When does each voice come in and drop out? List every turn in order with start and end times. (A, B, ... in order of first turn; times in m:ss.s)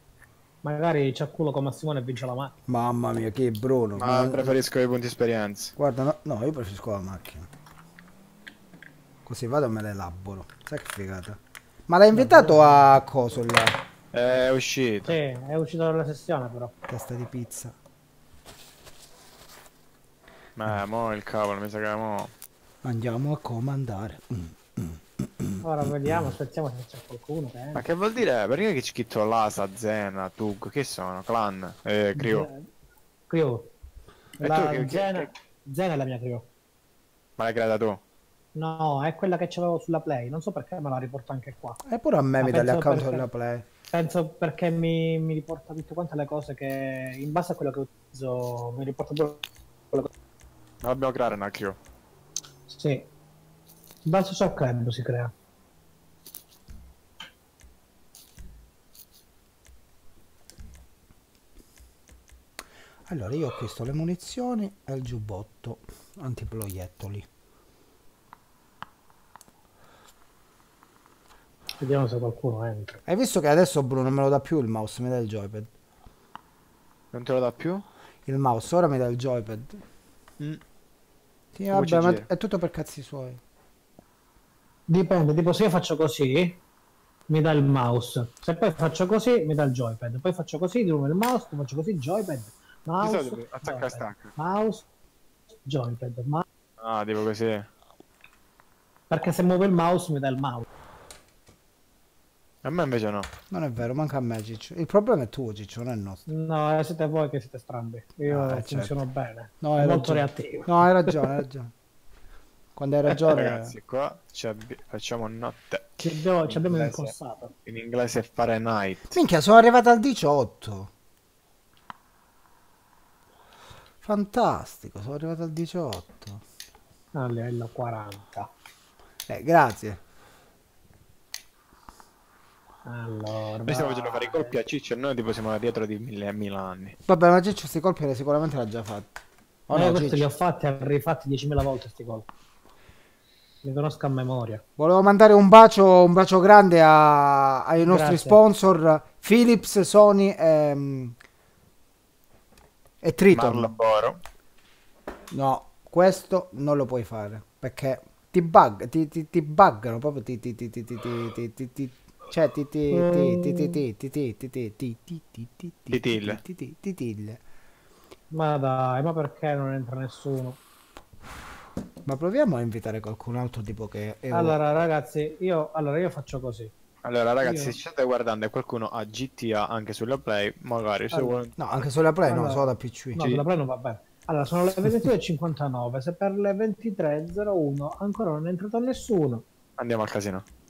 0:00.6-0:02.5 A
0:02.7-0:04.6 B
0:04.0-0:05.7 C
0:05.8-0:07.5 B
0:09.2-0:13.8 B
0:12.1-0:12.8 A
0:14.1-0:15.2 C
0:15.1-0:16.7 A
0:16.9-0:17.7 B
0:20.6-0:22.3 C
0:22.8-0:25.6 B
0:25.6-0:27.8 A
0:27.7-0:32.5 C
0:32.1-0:32.7 A
0:33.3-0:33.7 A
0:34.4-0:36.5 A
0:34.4-0:35.3 C
0:37.4-0:38.0 C
0:38.5-0:41.8 A
0:41.8-0:43.6 B
0:42.4-0:43.2 A
0:43.9-0:50.1 A
0:50.8-0:51.8 C
0:52.7-0:53.1 A
0:54.0-0:55.3 A
1:03.1-1:07.3 B
1:11.8-1:13.0 A
1:13.1-1:15.7 B
1:17.1-1:17.8 C
1:18.2-1:19.8 B
1:21.5-1:23.4 B
1:21.7-1:22.2 C
1:24.9-1:26.6 A
1:27.3-1:34.8 A
1:33.0-1:34.3 C
1:35.6-1:36.4 A
1:36.8-1:37.7 C
1:39.1-1:40.7 A
1:42.6-1:43.3 C
1:43.5-1:46.2 B
1:46.3-1:51.4 A
1:48.3-1:49.0 B
1:49.6-1:51.7 B
1:52.8-1:53.7 B
1:53.2-1:57.1 C
1:56.0-1:57.5 A
1:57.6-1:59.2 C
1:59.1-2:00.9 B
2:04.0-2:06.4 B
2:07.1-2:08.5 A
2:09.3-2:10.0 B
2:12.8-2:14.5 A
2:13.6-2:17.0 C
2:17.1-2:20.3 B
2:19.7-2:22.3 A
2:23.6-2:24.6 A
2:24.8-2:31.2 B
2:27.8-2:28.4 A
2:33.0-2:33.7 B
2:33.3-2:34.2 C
2:35.3-2:47.4 B
2:42.9-2:43.8 A
2:45.9-2:46.4 C
2:48.3-2:50.6 A
2:52.0-2:54.6 B
2:54.3-2:56.7 A
2:57.0-3:01.6 C
2:57.4-2:57.8 A
3:01.6-3:03.2 B
3:02.2-3:09.4 A
3:09.8-3:10.4 C